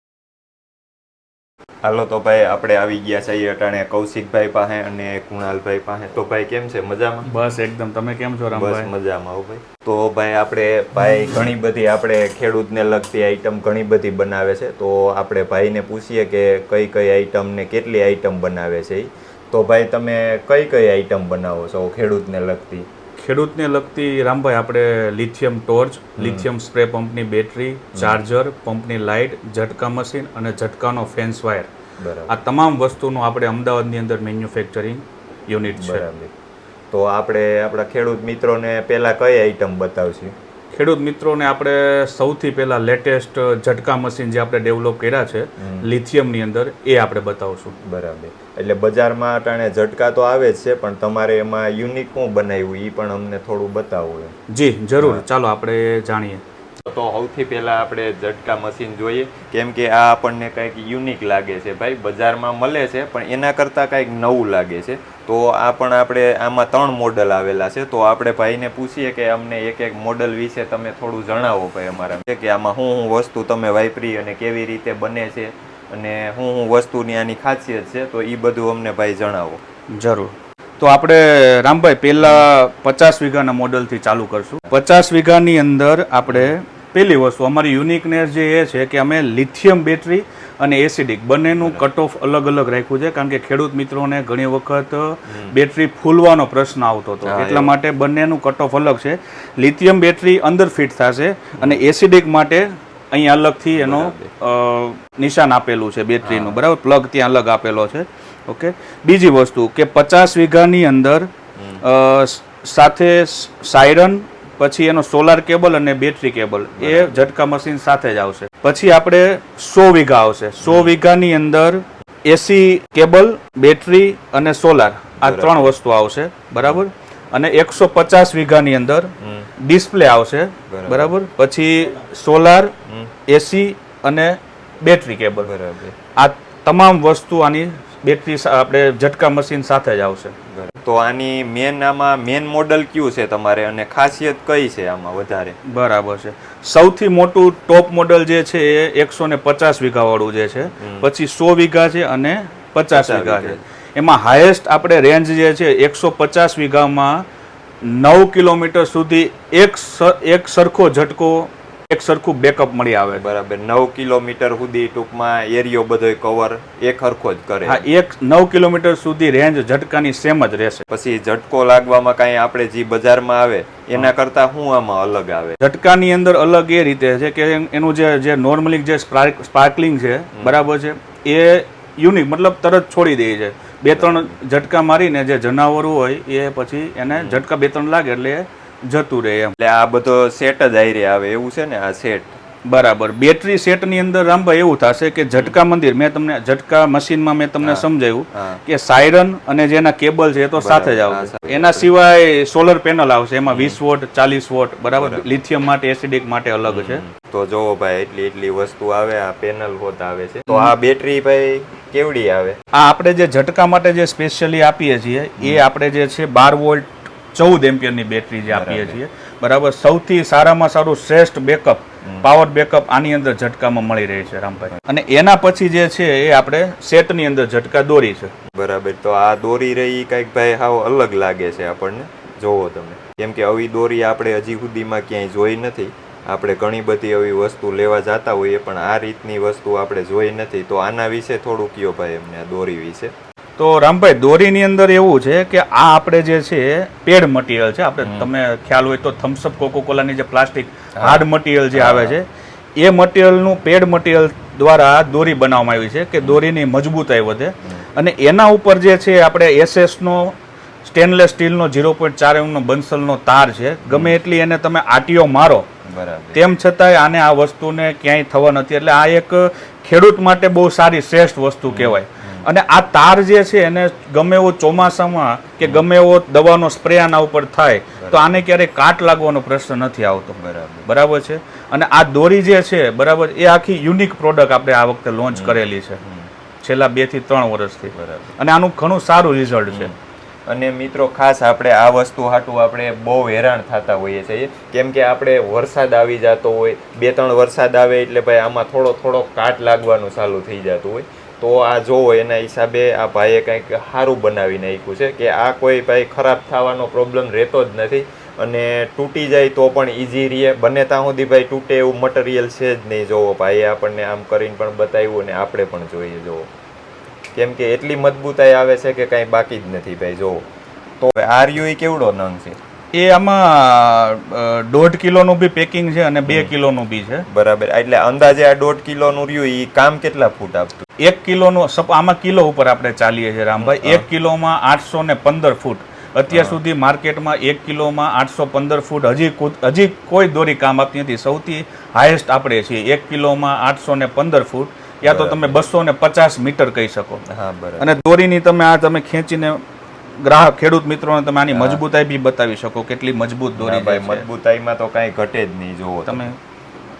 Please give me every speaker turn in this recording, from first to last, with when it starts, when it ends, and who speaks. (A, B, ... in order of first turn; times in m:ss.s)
0:01.8-0:07.3 A
0:07.2-0:08.9 B
0:08.5-0:22.8 A
0:23.2-0:31.7 B
0:26.2-0:26.5 A
0:32.0-0:32.4 A
0:32.3-0:36.0 B
0:35.7-0:36.3 A
0:36.9-0:40.3 A
0:40.7-0:47.7 B
0:45.6-0:45.9 A
0:47.8-0:54.3 A
0:54.5-0:56.4 B
0:55.0-0:55.2 A
0:56.8-1:19.6 A
1:20.0-1:51.3 B
1:22.2-1:22.5 A
1:26.3-1:26.5 A
1:31.6-1:31.9 A
1:35.3-1:35.6 A
1:37.2-1:37.7 A
1:43.7-1:44.3 A
1:46.2-1:46.6 A
1:51.6-1:51.8 A
1:51.8-2:12.7 B
1:56.8-1:57.2 A
2:00.6-2:01.0 A
2:05.2-2:05.7 A
2:06.6-2:06.8 A
2:09.2-2:09.5 A
2:10.7-2:11.1 A
2:12.8-2:13.1 A
2:13.3-2:15.5 B
2:15.4-2:16.0 A
2:16.2-2:20.3 B
2:20.5-2:25.6 A
2:25.7-2:37.2 B
2:30.8-2:31.1 A
2:32.9-2:33.6 A
2:37.9-2:43.2 B
2:43.2-2:47.8 A
2:47.6-2:50.8 B
2:50.9-2:55.6 A
2:55.6-3:09.5 B
3:03.9-3:04.4 A
3:07.1-3:07.4 A
3:09.6-3:12.3 A
3:12.6-3:27.0 B
3:17.6-3:18.6 A
3:20.6-3:21.9 A
3:23.5-3:23.8 A
3:24.9-3:25.3 A
3:26.6-3:32.6 A
3:32.7-3:48.3 B
3:38.5-3:39.0 A
3:48.5-4:03.1 A
4:03.6-4:12.2 B
4:08.0-4:08.3 A
4:11.0-4:12.2 A
4:12.8-4:25.6 B
4:23.8-4:24.2 A
4:25.8-4:26.4 A
4:26.3-4:46.0 B
4:31.7-4:32.5 A
4:35.6-4:35.9 A
4:38.0-4:38.4 A
4:40.4-4:40.9 A
4:45.3-4:46.3 A
4:46.6-4:49.9 B
4:47.9-4:48.4 A
4:49.7-4:50.0 A
4:50.5-5:16.5 A
5:17.3-5:20.4 A
5:21.0-5:22.6 A
5:22.9-5:27.2 B
5:26.2-5:26.5 A
5:27.3-5:30.8 A
5:31.0-5:47.2 B
5:33.6-5:34.0 A
5:36.3-5:36.6 A
5:45.0-5:45.6 A
5:47.3-5:47.9 A
5:47.8-5:49.6 B
5:50.2-5:54.2 B
5:51.5-5:51.8 A
5:53.6-5:56.3 A
5:56.1-5:56.4 B